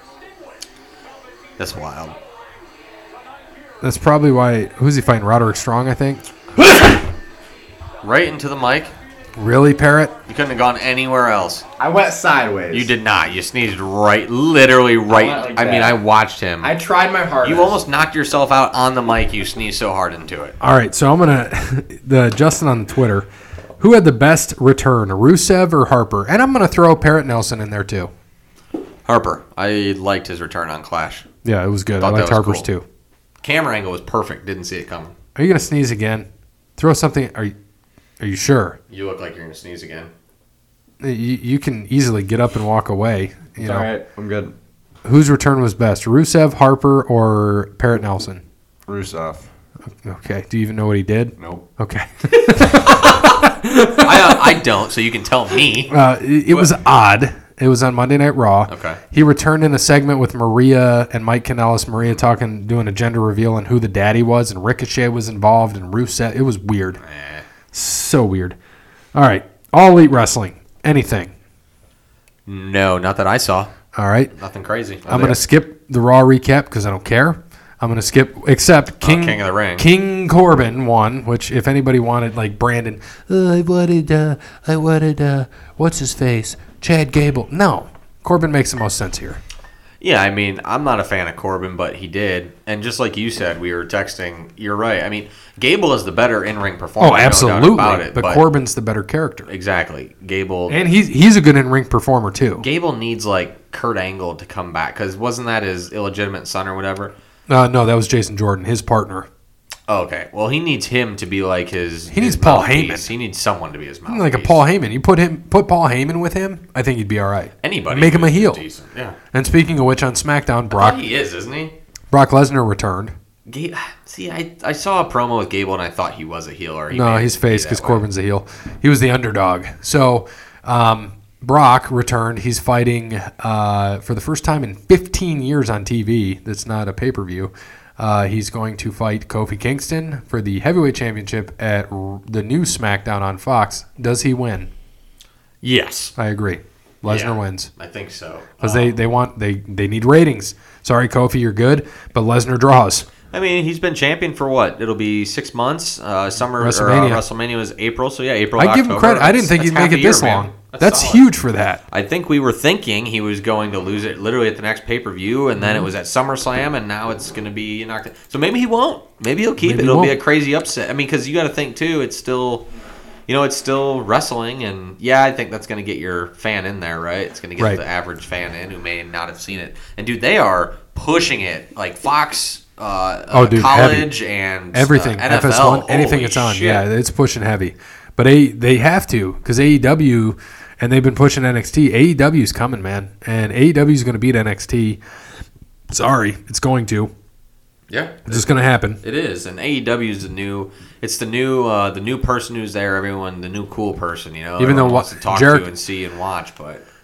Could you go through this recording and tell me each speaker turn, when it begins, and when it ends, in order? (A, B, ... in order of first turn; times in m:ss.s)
0:01.6-0:02.2 A
0:03.8-0:06.3 B
0:08.0-0:08.9 A
0:09.4-0:10.1 B
0:10.3-0:11.6 A
0:11.8-0:12.9 C
0:12.7-0:16.8 A
0:15.1-0:16.0 C
0:16.6-0:17.8 C
0:17.4-0:20.5 A
0:20.6-0:23.3 B
0:23.8-0:28.1 B
0:29.1-0:31.3 A
0:31.4-0:32.8 B
0:32.0-0:32.7 A
0:33.4-0:35.1 A
0:35.4-0:37.5 B
0:38.2-0:38.8 B
0:38.9-0:40.1 A
0:41.0-0:43.9 B
0:43.6-0:44.5 C
0:45.0-0:48.4 B
0:48.9-0:49.5 C
0:50.0-0:54.6 B
0:51.4-0:51.6 C
0:52.6-0:55.9 A
0:55.9-1:07.0 B
0:58.7-0:59.0 A
1:07.0-1:07.4 A
1:07.7-1:08.6 B
1:09.1-1:11.3 B
1:12.5-1:13.7 A
1:14.0-1:14.3 B
1:14.3-1:15.4 A
1:15.1-1:29.4 B
1:19.0-1:19.9 A
1:30.0-1:38.4 A
1:37.0-1:39.5 B
1:39.5-1:40.8 A
1:40.7-1:42.6 B
1:42.6-1:47.1 A
1:47.5-1:49.3 B
1:49.9-1:54.6 A
1:52.1-1:53.1 B
1:54.1-1:58.6 B
1:57.6-1:59.2 A
1:59.3-2:01.0 B
2:00.7-2:01.7 A
2:02.1-2:03.1 B
2:03.5-2:08.0 A
2:06.9-2:24.7 B
2:25.6-2:26.1 A
2:26.2-2:27.7 B
2:27.1-2:29.0 A
2:28.6-2:33.1 B
2:33.3-2:41.2 A
2:36.6-2:37.2 B
2:38.6-2:41.8 B
2:41.9-2:52.7 A
2:49.6-2:50.2 B
2:53.3-3:06.8 A
3:03.3-3:04.1 B
3:04.7-3:15.0 B
3:15.9-3:17.1 B
3:17.9-3:18.5 A
3:18.3-3:19.0 B
3:19.0-3:26.8 A
3:24.6-3:25.7 B